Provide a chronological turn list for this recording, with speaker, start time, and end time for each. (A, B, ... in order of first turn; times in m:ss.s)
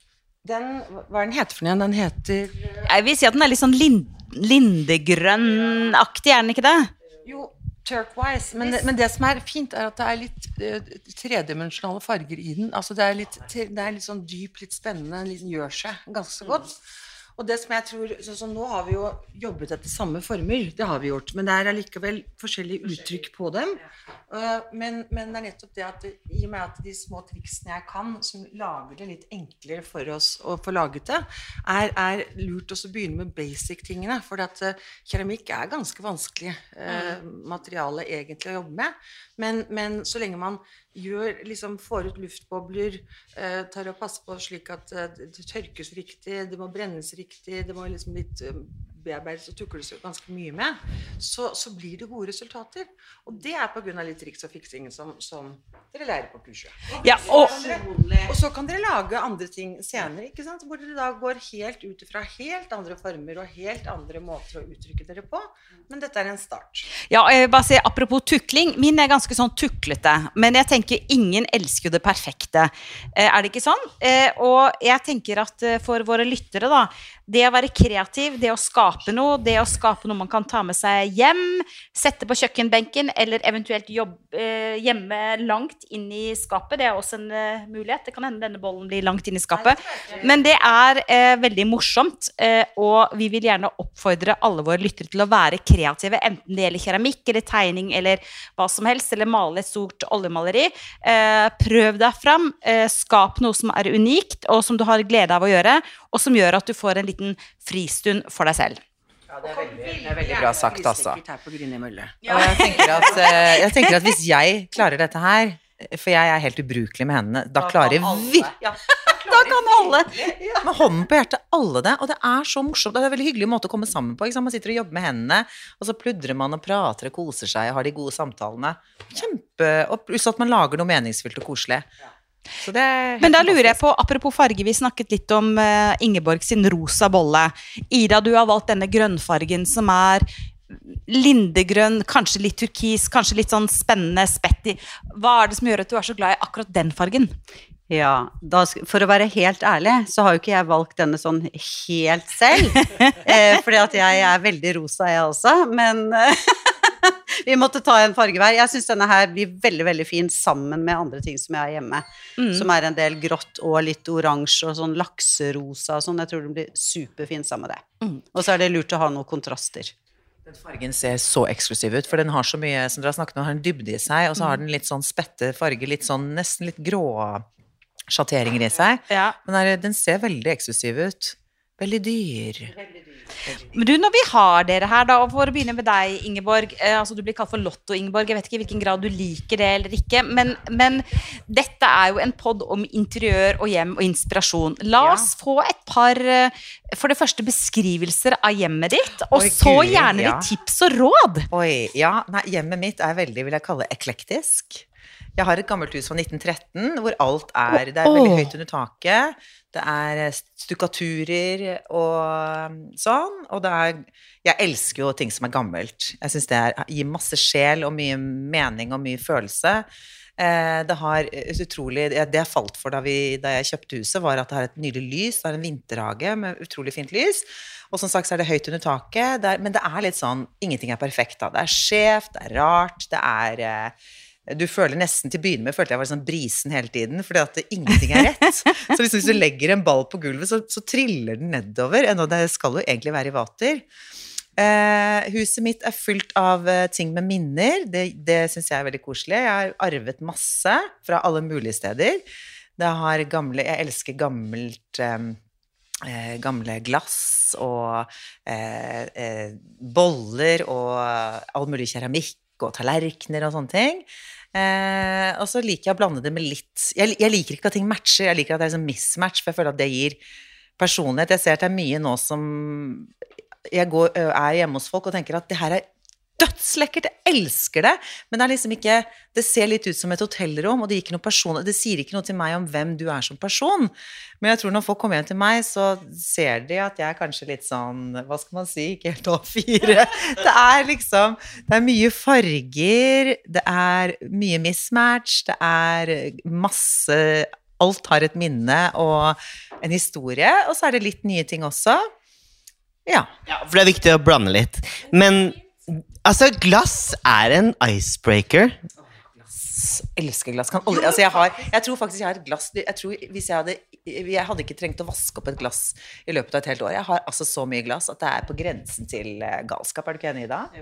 0:00.4-0:02.8 A
0:02.8-0:06.9 B
0:07.2-0:16.8 A
0:17.4-1:06.9 A
0:36.9-0:37.2 B
0:57.0-0:57.6 B
1:07.1-1:48.8 B
1:29.7-1:30.2 A
1:49.4-1:53.0 A
1:49.4-1:51.2 C
1:52.3-1:58.5 C
1:52.5-1:52.7 B
1:57.6-2:00.6 D
1:59.1-1:59.9 C
2:00.6-2:11.9 C
2:12.6-2:13.8 C
2:13.2-2:27.3 B
2:27.9-2:49.9 D
2:42.4-2:42.7 B
2:50.5-2:57.5 C
2:58.1-3:02.7 C
2:59.1-2:59.4 B
3:03.6-3:21.5 B
3:19.3-3:20.5 C
3:21.5-3:24.8 C
3:25.4-3:54.0 C
3:28.1-3:28.4 B
3:54.5-4:03.8 C
4:04.6-4:12.2 C
4:12.8-4:15.4 C
4:16.0-4:30.2 C
4:30.8-4:33.1 C
4:33.7-4:35.9 C
4:36.4-5:02.0 C
5:03.5-5:08.8 E
5:09.4-5:20.7 C